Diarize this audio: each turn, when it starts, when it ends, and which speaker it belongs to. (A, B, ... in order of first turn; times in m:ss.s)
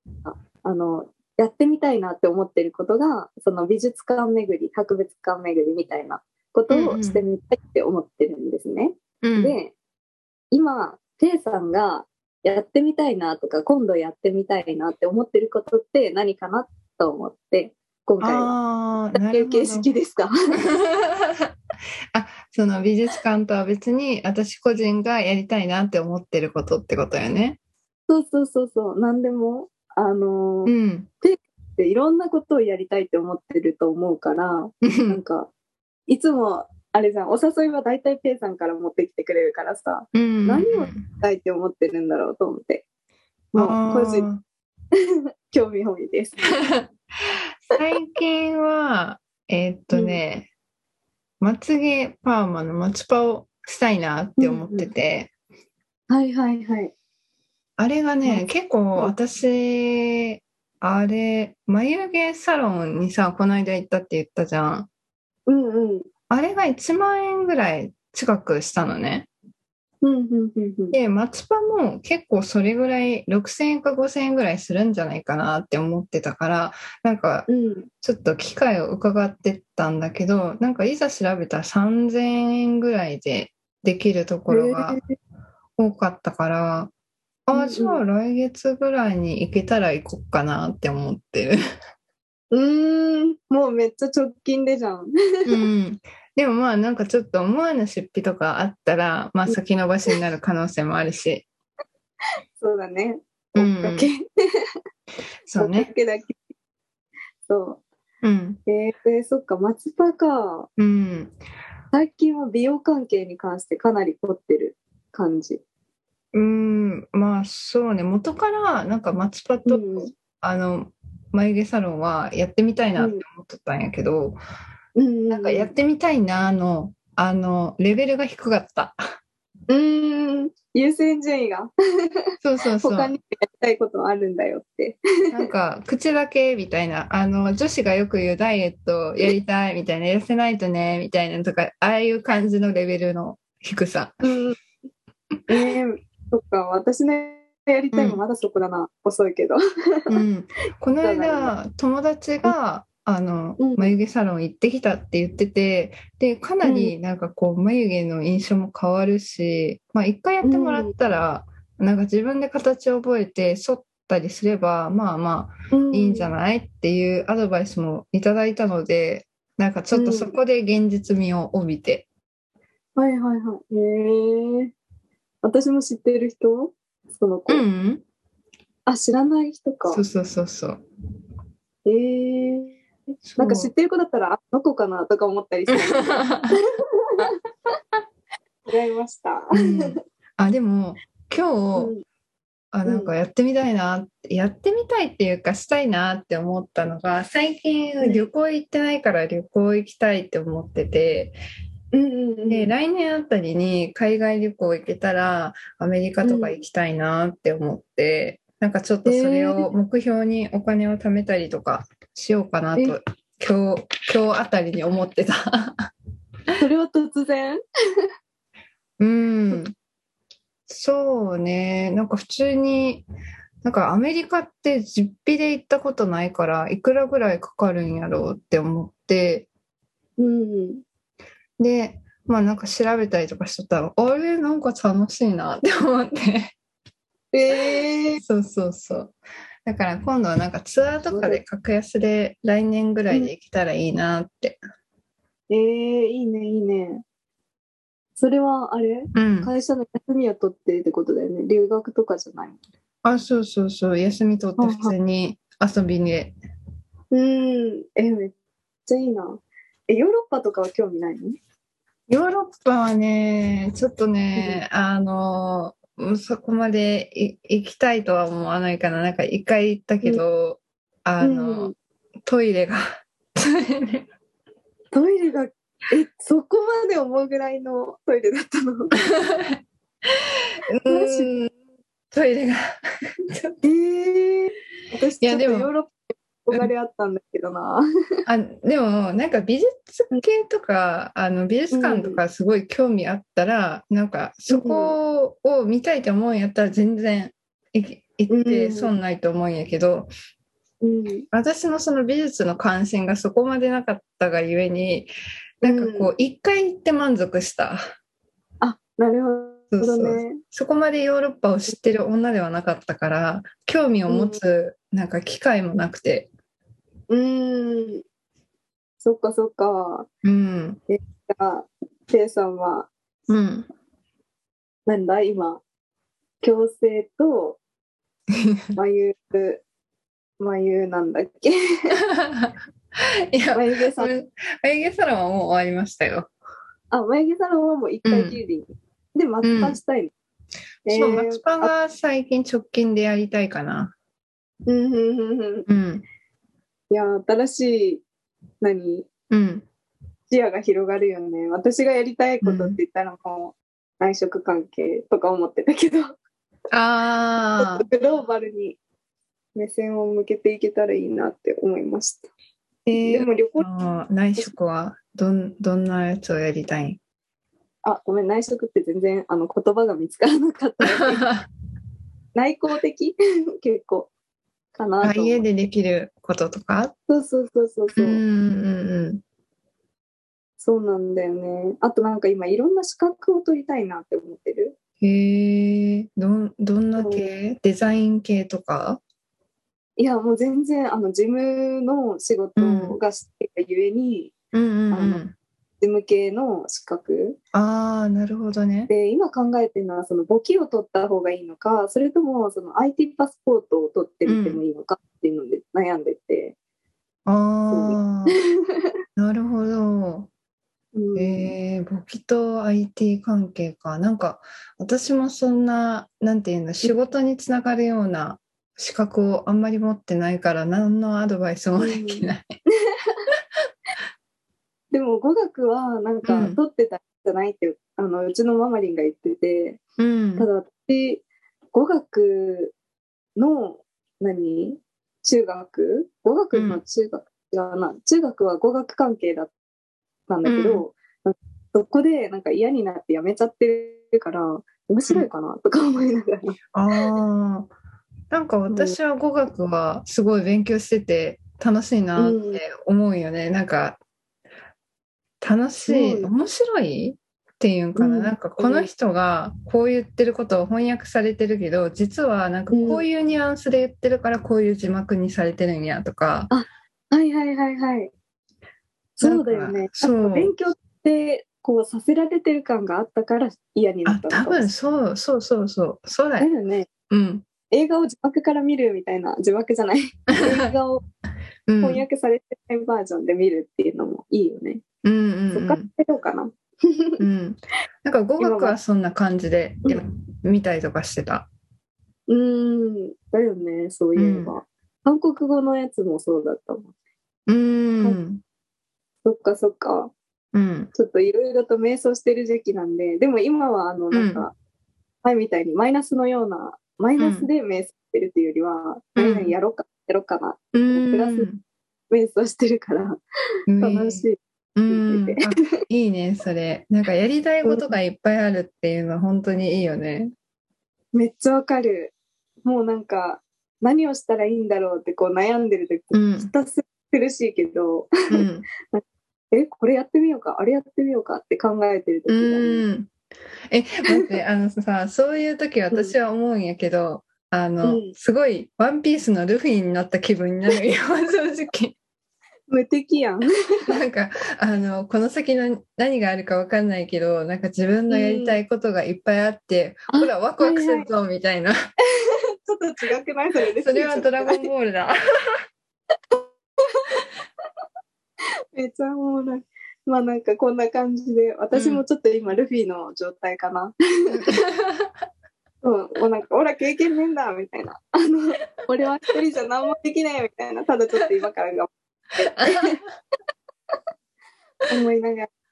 0:00.2-0:09.7 A
0:06.7-0:07.2 B
0:09.2-0:09.6 B
0:10.5-0:18.5 A
0:18.2-0:19.9 B
0:19.1-0:20.6 A
0:20.7-0:21.5 B
0:22.1-0:27.6 B
0:28.1-0:35.5 A
0:30.6-0:31.1 B
0:34.8-0:35.2 B
0:36.1-0:42.8 A
0:40.1-0:41.0 B
0:43.5-0:44.3 A
0:43.6-0:44.4 B
0:45.5-0:46.5 A
0:46.6-0:50.5 B
0:49.9-0:50.2 A
0:51.4-0:55.3 B
0:54.4-0:54.9 A
0:56.1-0:56.9 A
0:57.8-1:04.9 B
1:05.5-1:06.1 A
1:06.3-1:09.3 B
1:10.0-1:11.0 A
1:10.9-1:17.5 B
1:17.5-1:17.9 A
1:18.0-1:25.0 B
1:24.5-1:25.0 A
1:25.8-1:26.9 B
1:27.5-1:31.6 B
1:27.5-1:28.0 A
1:32.5-1:35.5 A
1:35.4-1:41.5 B
1:42.6-1:44.2 A
1:43.6-1:44.1 B
1:45.4-1:45.9 B
1:45.6-1:46.4 A
1:47.5-1:47.8 A
1:48.2-1:48.6 B
1:48.6-1:50.7 A
1:50.8-1:51.4 B
1:51.9-1:55.6 A
1:56.3-2:04.4 B
1:59.6-2:00.1 A
2:03.0-2:03.2 A
2:05.0-2:05.7 A
2:05.3-2:09.0 B
2:09.7-2:11.7 A
2:12.4-2:13.1 B
2:12.8-2:15.4 A
2:15.3-2:24.2 B
2:24.2-2:24.6 A
2:25.5-2:30.2 A
2:27.9-2:28.2 B
2:30.1-2:52.1 B
2:31.0-2:31.5 A
2:33.6-2:33.9 A
2:36.6-2:36.9 A
2:40.4-2:40.9 A
2:45.7-2:46.3 A
2:49.9-2:50.3 A
2:53.0-2:54.7 A
2:55.4-2:57.6 A
2:57.5-2:58.0 B
2:58.9-3:00.0 A
2:59.9-3:00.8 B
3:01.8-3:02.8 A
3:03.2-3:03.7 B
3:03.4-3:07.2 A
3:05.7-3:06.6 B
3:08.6-3:10.0 A
3:09.6-3:11.9 B
3:11.8-3:12.0 A
3:12.7-3:21.4 B
3:12.8-3:13.1 A
3:18.0-3:18.3 A
3:21.9-3:22.7 A
3:22.5-3:35.9 B
3:26.2-3:26.6 A
3:29.0-3:29.7 A
3:36.6-3:37.6 A
3:39.0-3:39.7 B
3:40.7-3:43.0 B
3:43.6-3:49.5 B
3:50.2-3:50.8 A
3:51.6-3:56.5 B
3:57.3-3:58.2 A
3:58.2-4:04.6 B
4:01.1-4:01.4 A
4:05.5-4:07.0 A
4:08.2-4:12.6 A
4:09.1-4:09.5 B
4:13.0-4:16.3 B
4:14.6-4:14.9 A
4:17.1-4:18.3 A
4:18.8-4:21.4 A
4:22.1-4:31.7 B
4:24.4-4:24.6 A
4:31.2-4:31.7 A
4:32.2-4:34.1 B
4:34.9-4:39.0 A
4:39.0-4:39.6 B
4:40.8-4:41.5 B
4:40.8-4:41.3 A
4:42.1-4:43.6 B
4:43.6-4:47.8 A
4:45.2-4:45.7 B
4:48.3-5:00.1 B
4:51.7-4:52.2 A
4:54.5-4:55.0 A
4:58.3-4:58.9 A
5:00.8-5:01.2 A
5:01.3-5:05.1 B
5:05.6-5:07.8 B
5:05.6-5:06.1 A
5:08.6-5:10.4 A
5:09.7-5:16.3 B
5:14.1-5:14.4 A
5:17.1-5:18.0 A
5:19.0-5:20.1 A
5:20.2-5:20.8 B
5:20.9-5:22.9 A
5:23.3-5:23.7 B
5:24.8-5:25.6 A
5:26.4-5:27.6 A
5:28.3-5:28.6 B
5:28.8-5:29.6 A
5:30.4-5:32.0 A
5:32.0-5:32.5 B
5:33.3-5:36.3 B
5:33.5-5:34.1 A
5:36.9-5:40.1 A
5:38.0-5:38.4 B
5:39.4-5:39.8 B
5:40.8-5:41.7 A
5:40.9-5:43.9 B
5:44.6-5:45.7 A
5:45.7-5:46.0 B
5:46.9-5:48.0 A
5:48.6-5:49.1 A
5:49.3-5:49.6 B
5:50.3-5:56.1 A
5:52.4-5:52.8 B
5:56.7-5:57.8 B
5:57.6-5:58.8 A
5:59.5-6:02.3 A
6:02.8-6:07.0 B
6:03.0-6:03.7 A
6:07.8-6:11.2 A
6:10.8-6:11.5 B
6:12.3-6:14.1 A
6:14.7-6:15.4 A
6:15.0-6:16.9 B
6:17.1-6:18.2 A
6:17.9-6:19.2 B
6:20.6-6:24.8 A
6:25.0-6:29.0 B
6:27.0-6:27.3 A
6:30.0-6:34.3 A
6:32.6-6:33.0 B
6:34.5-6:35.3 B
6:34.9-6:35.2 A
6:35.8-6:37.4 A
6:37.5-6:38.9 B
6:38.9-6:46.6 A
6:44.2-6:44.6 B
6:47.2-6:48.4 B
6:47.7-6:48.4 A
6:49.2-6:50.3 B
6:50.9-6:51.6 A
6:51.1-7:02.5 B
7:01.8-7:02.3 A
7:02.9-7:03.2 A
7:04.9-7:09.8 A
7:06.2-7:06.6 B
7:10.0-7:10.5 B
7:10.4-7:12.7 A
7:13.4-7:19.5 A
7:16.5-7:16.8 B
7:20.3-7:26.6 A
7:20.4-7:20.8 B
7:26.7-7:27.7 B
7:28.3-7:34.0 B
7:28.7-7:29.0 A
7:32.2-7:32.6 A
7:35.4-7:46.5 B
7:35.9-7:36.3 A
7:38.0-7:38.9 A
7:42.7-7:43.0 A
7:46.5-7:48.1 A
7:49.2-7:54.7 A
7:49.2-7:50.5 B
7:54.0-7:56.5 B
7:56.4-7:56.9 A
7:57.1-7:57.5 B
7:57.7-8:01.0 A
8:00.3-8:00.7 B
8:01.7-8:02.0 B
8:01.8-8:04.8 A
8:05.0-8:05.9 B
8:05.5-8:07.2 A
8:07.2-8:11.5 B
8:08.4-8:08.8 A
8:12.3-8:16.9 A
8:14.2-8:14.5 B
8:17.5-8:18.4 B
8:19.2-8:20.1 A
8:20.5-8:20.9 B
8:20.9-8:24.5 A
8:24.1-8:24.4 B
8:25.2-8:31.5 A
8:27.2-8:27.5 B
8:29.2-8:29.5 B
8:30.7-8:31.6 B
8:32.1-8:33.2 A
8:33.7-8:34.2 B
8:33.8-8:34.4 A
8:34.8-8:40.3 B
8:34.9-8:35.5 A
8:37.6-8:37.9 A
8:41.1-8:42.1 A
8:42.6-8:52.8 A
8:46.1-8:46.5 B
8:48.3-8:48.7 B
8:52.3-8:53.1 B
8:53.7-9:02.0 B
8:57.8-8:58.1 A
9:02.7-9:03.9 A
9:03.9-9:11.7 B
9:08.1-9:08.6 A
9:10.1-9:11.1 A
9:12.2-9:14.7 A
9:13.8-9:15.6 B
9:16.3-9:17.2 A
9:18.7-9:24.6 A
9:21.7-9:22.0 B
9:24.3-9:25.1 B
9:25.8-9:33.0 A
9:32.5-9:33.1 B
9:34.9-9:35.5 A